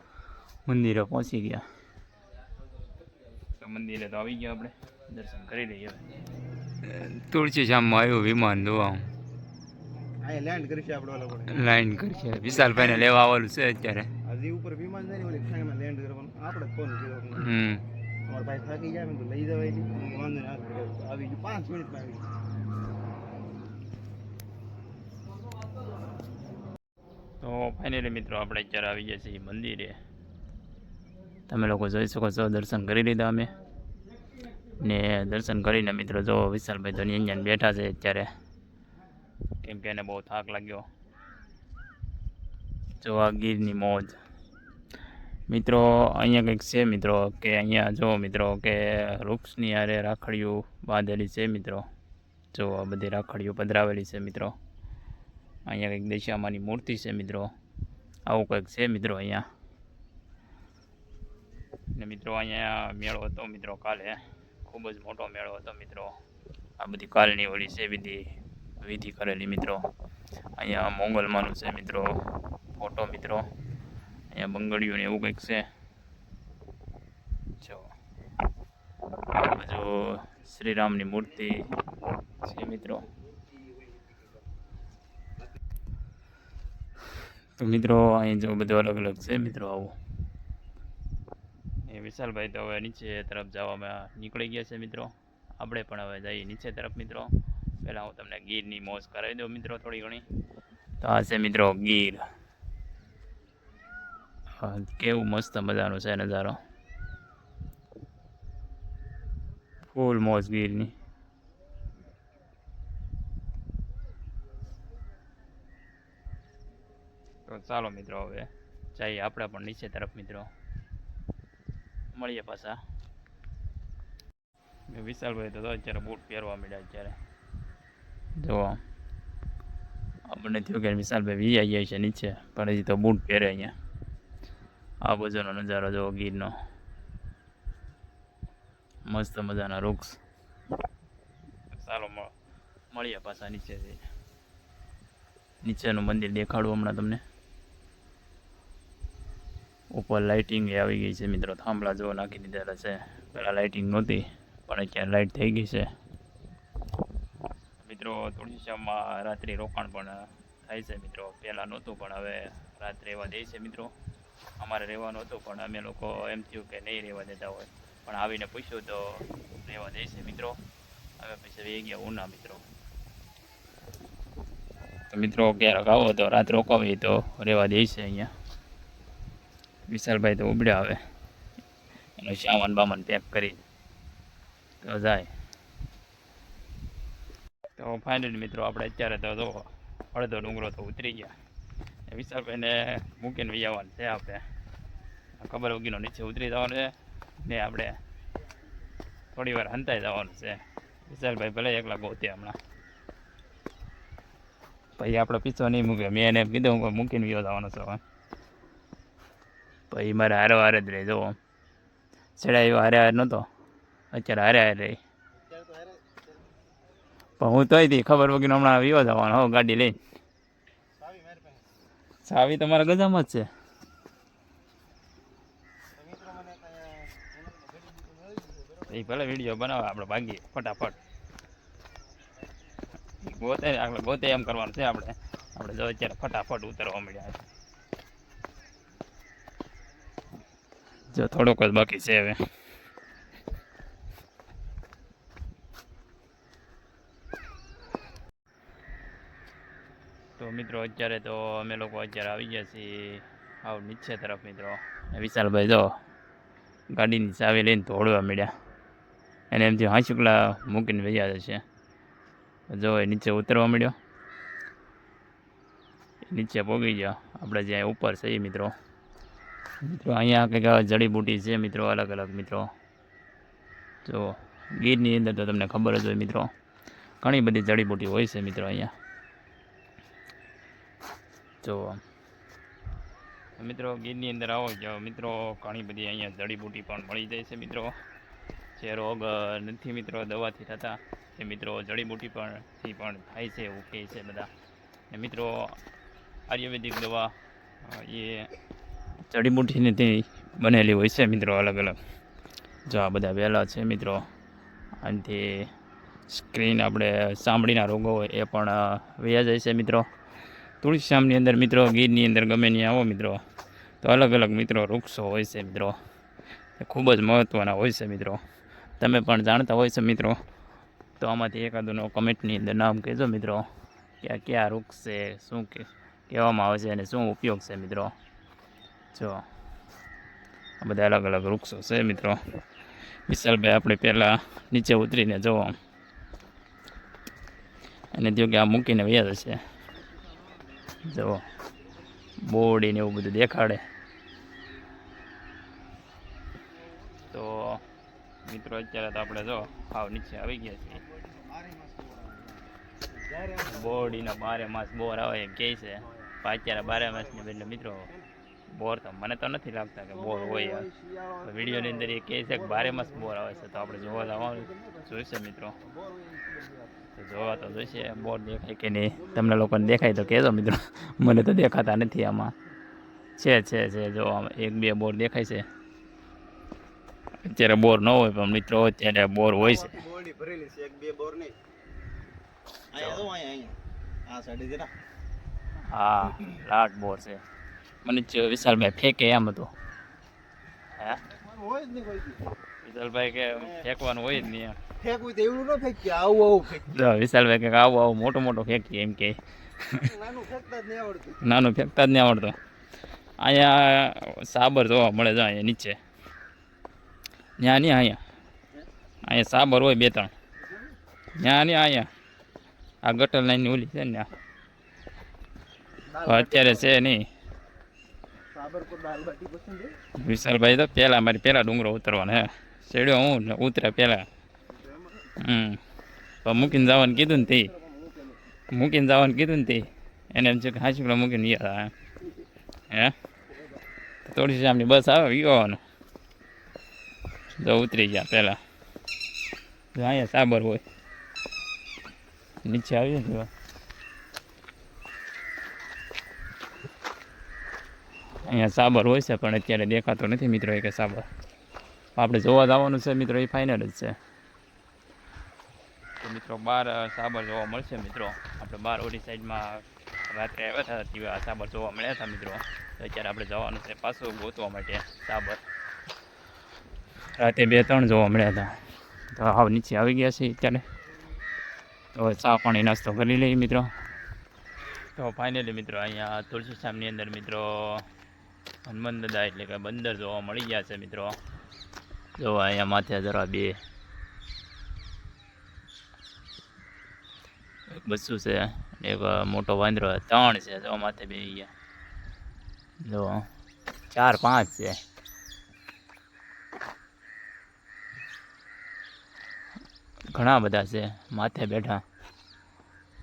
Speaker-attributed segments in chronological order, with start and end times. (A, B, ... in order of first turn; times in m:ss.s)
0:00.6-0:01.6 A
0:03.6-0:06.0 A
0:06.8-0:09.1 A
0:10.2-0:11.6 B
0:11.5-0:14.1 A
0:12.4-0:13.1 B
0:14.2-0:17.5 B
0:17.3-0:17.8 A
0:18.2-0:22.3 B
0:27.4-0:30.0 A
0:31.5-0:33.5 A
0:34.8-0:38.3 A
0:39.6-0:40.9 A
0:43.0-0:44.2 A
0:45.5-0:51.8 A
0:52.5-0:54.6 A
0:55.7-0:57.5 A
0:58.3-0:59.4 A
1:01.9-1:06.2 A
1:06.8-1:09.8 A
1:10.6-1:12.2 A
1:12.8-1:13.4 A
1:14.3-1:15.6 A
1:17.6-1:17.9 A
1:19.5-1:21.7 A
1:22.4-1:23.0 A
1:27.6-1:30.0 A
1:31.8-1:37.3 A
1:37.8-1:40.2 A
1:41.0-1:42.2 A
1:44.6-1:46.6 A
1:49.9-1:50.9 A
1:57.5-2:00.5 A
2:02.1-2:02.8 A
2:04.9-2:07.2 A
2:08.4-2:08.8 A
2:10.3-2:13.7 A
2:15.0-2:16.5 A
2:19.0-2:20.2 A
2:21.7-2:22.3 A
2:22.9-2:24.0 A
2:25.6-2:27.2 A
2:29.9-2:35.9 A
2:37.8-2:43.9 A
2:44.6-2:50.6 A
2:51.2-2:52.6 A
2:55.1-2:58.3 A
2:59.9-3:01.0 A
3:02.2-3:03.6 A
3:04.8-3:05.3 A
3:07.8-3:11.3 A
3:12.1-3:14.4 A
3:15.4-3:18.0 A
3:19.3-3:22.6 A
3:25.0-3:28.0 A
3:29.9-3:31.4 A
3:32.4-3:33.4 A
3:34.1-3:35.0 A
3:35.4-3:36.5 B
3:37.4-3:40.0 A
3:41.0-3:41.7 B
3:42.2-3:43.5 A
3:45.9-3:49.0 B
3:48.9-3:51.0 A
3:53.2-3:57.4 A
4:01.1-4:02.4 A
4:10.4-4:15.9 A
4:16.9-4:18.5 A
4:19.5-4:21.6 A
4:22.7-4:24.0 A
4:26.3-4:28.7 A
4:29.8-4:32.7 A
4:34.0-4:36.5 A
4:37.2-4:38.9 A
4:41.6-4:42.0 A
4:43.6-4:47.9 A
4:48.8-4:54.5 A
4:55.1-4:55.8 A
4:56.5-4:57.3 A
4:57.8-4:58.5 A
4:59.3-5:02.0 A
5:02.9-5:04.2 A
5:05.0-5:05.7 A
5:06.3-5:10.1 A
5:10.8-5:13.4 A
5:14.0-5:16.0 A
5:16.8-5:18.4 A
5:19.0-5:20.4 A
5:21.2-5:23.7 A
5:24.2-5:28.1 A
5:29.1-5:29.4 A
5:30.8-5:32.4 A
5:33.3-5:35.8 A
5:38.1-5:39.6 A
5:41.0-5:41.4 A
5:42.4-5:43.8 A
5:47.3-5:47.8 A
5:48.4-5:51.0 A
5:50.9-5:54.3 B
5:53.6-5:58.1 A
5:56.2-5:58.3 B
5:58.7-6:00.9 A
6:00.1-6:05.2 B
6:01.4-6:05.8 A
6:05.8-6:08.5 B
6:07.1-6:12.5 A
6:09.1-6:10.5 B
6:13.4-6:15.6 A
6:17.4-6:20.0 A
6:19.6-6:21.5 B
6:22.9-6:24.9 B
6:23.0-6:23.2 A
6:25.9-6:27.4 A
6:26.3-6:26.5 B
6:28.0-6:29.7 A
6:31.0-6:32.5 B
6:32.8-6:34.8 A
6:33.5-6:33.8 B
6:35.0-6:36.9 B
6:36.8-6:40.0 A
6:39.9-6:41.4 B
6:41.4-6:42.6 A
6:43.4-6:46.0 A
6:47.6-6:48.2 A
6:49.3-6:50.3 A
6:50.6-6:51.0 B
6:51.4-6:52.1 A
6:53.0-6:54.3 A
6:56.1-6:57.0 B
6:56.2-6:57.2 A
6:58.5-6:59.9 B
7:00.2-7:04.3 A
7:04.7-7:05.3 B
7:05.4-7:05.8 A
7:06.4-7:07.7 A
7:06.6-7:08.4 B
7:08.7-7:11.9 A
7:12.9-7:13.1 A
7:14.2-7:15.8 A
7:17.6-7:18.6 A
7:19.9-7:20.8 A
7:22.6-7:23.5 A
7:28.4-7:31.2 A
7:32.2-7:34.2 A
7:36.2-7:45.6 A
7:47.4-7:48.8 A
7:49.3-7:50.8 A
7:52.1-7:53.9 A
7:55.2-7:58.0 A
7:58.8-8:01.4 A
8:02.4-8:03.8 A
8:07.9-8:11.7 A
8:13.0-8:13.5 A
8:14.1-8:15.0 A
8:20.3-8:22.0 A